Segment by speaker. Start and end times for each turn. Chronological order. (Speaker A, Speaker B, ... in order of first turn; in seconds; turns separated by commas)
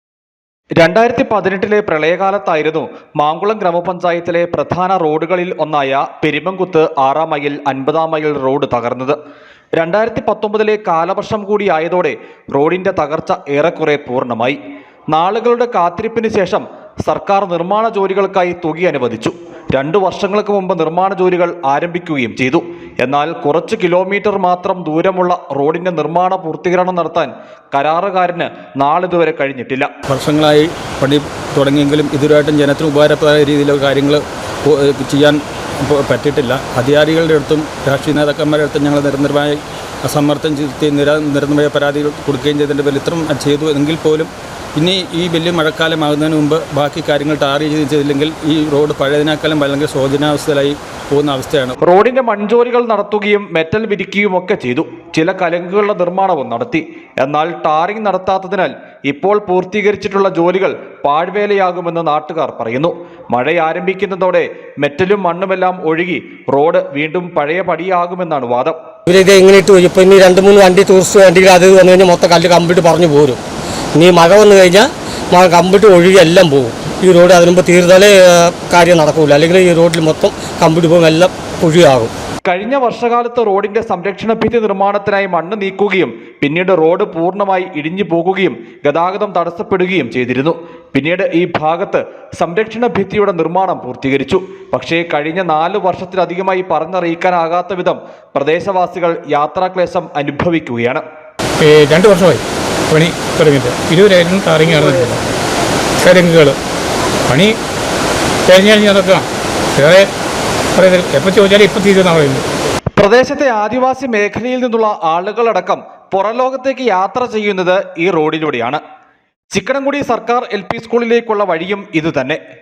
Speaker A: 0.8-9.2, Speaker A: 9.8-14.6, Speaker A: 15.1-29.9, Speaker B: 30.1-51.8, Speaker A: 51.8-68.8, Speaker C: 69.1-73.4, Speaker C: 74.0-82.1, Speaker A: 82.5-101.0, Speaker D: 101.6-105.2, Speaker D: 106.0-106.6, Speaker D: 107.3-107.5, Speaker D: 108.5-109.3, Speaker D: 109.8-110.1, Speaker D: 110.8-112.5, Speaker A: 113.0-118.8, Speaker A: 119.5-122.4